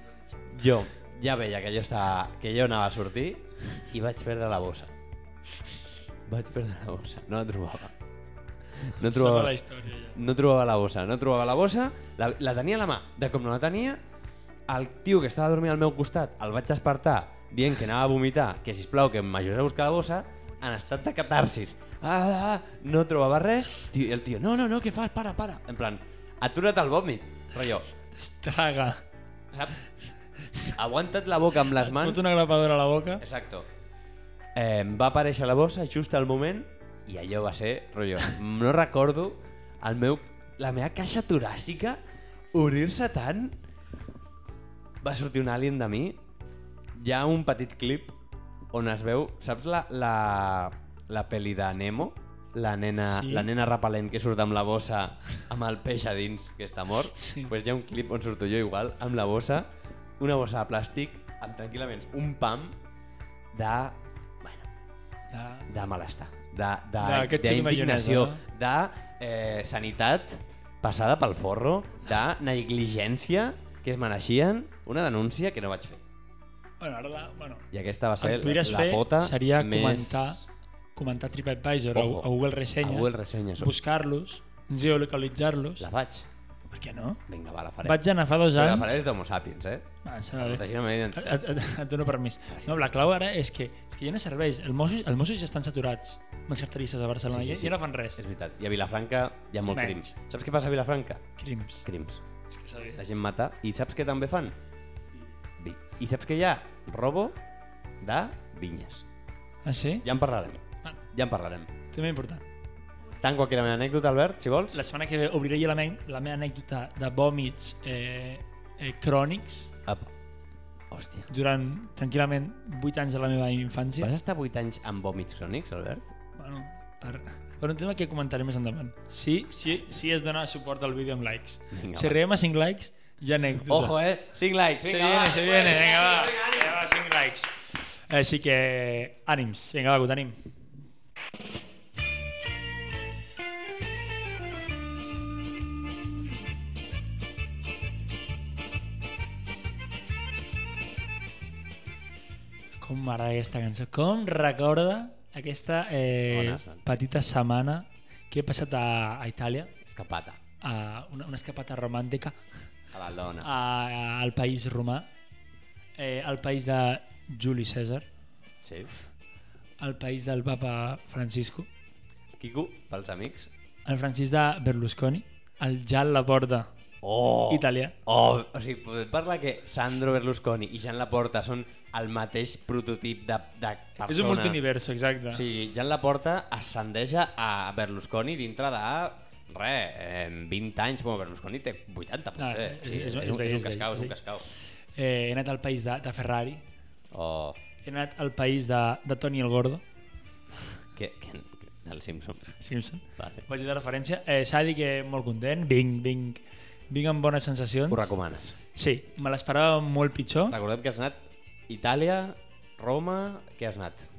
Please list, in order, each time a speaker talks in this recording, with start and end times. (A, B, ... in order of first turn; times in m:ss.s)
0:00.5-0:04.9 A
0:06.3-0:07.9 A
0:08.8-0:09.6 A
0:09.1-0:10.2 B
0:10.1-0:14.0 A
0:14.7-0:27.9 A
0:28.2-0:29.0 B
0:29.5-0:29.8 A
0:30.8-0:32.3 A
0:31.8-0:33.2 B
0:33.2-0:33.7 A
0:34.6-0:42.0 A
0:42.5-0:43.6 A
0:45.0-0:46.2 A
0:47.0-0:48.2 A
0:48.7-1:02.8 A
0:53.0-0:53.5 B
0:57.2-0:57.5 B
1:03.5-1:04.7 A
1:05.3-1:05.7 B
1:05.7-1:16.0 A
1:07.0-1:08.4 B
1:16.8-1:17.7 B
1:17.7-1:20.4 A
1:18.2-1:20.4 B
1:21.0-1:25.9 B
1:21.9-1:23.7 A
1:25.8-1:26.3 A
1:26.7-1:27.2 B
1:27.3-1:31.4 A
1:27.8-1:29.0 B
1:30.0-1:38.2 B
1:32.5-1:32.9 A
1:37.3-1:41.2 A
1:39.7-1:40.1 B
1:41.4-1:41.9 B
1:41.8-1:42.2 A
1:42.5-1:43.0 B
1:43.0-1:44.6 A
1:45.6-1:47.4 A
1:48.0-1:49.0 A
1:49.6-1:50.1 B
1:50.0-1:51.7 A
1:51.9-1:52.4 B
1:53.2-1:54.8 A
1:54.7-1:59.7 B
2:00.9-2:01.3 A
2:01.3-2:04.1 B
2:04.0-2:06.1 A
2:06.4-2:14.0 B
2:11.7-2:12.2 A
2:13.7-2:16.8 A
2:14.8-2:20.4 B
2:32.8-2:39.7 B
2:36.3-2:37.0 A
2:39.8-2:40.4 A
2:40.6-2:42.4 B
2:42.9-2:43.5 A
2:43.4-2:45.1 B
2:46.0-2:48.1 B
2:48.6-2:48.9 A
2:49.8-2:51.7 B
2:52.4-2:53.5 A
2:53.9-2:56.7 B
2:57.0-3:04.6 A
2:57.5-2:58.0 B
3:04.0-3:05.4 B
3:05.3-3:14.5 A
3:12.4-3:14.2 B
3:15.0-3:16.6 B
3:17.1-3:17.6 A
3:17.8-3:19.8 B
3:21.0-3:22.5 A
3:22.6-3:28.1 B
3:23.2-3:23.4 A
3:27.9-3:28.6 A
3:28.8-3:30.6 B
3:30.5-3:34.1 A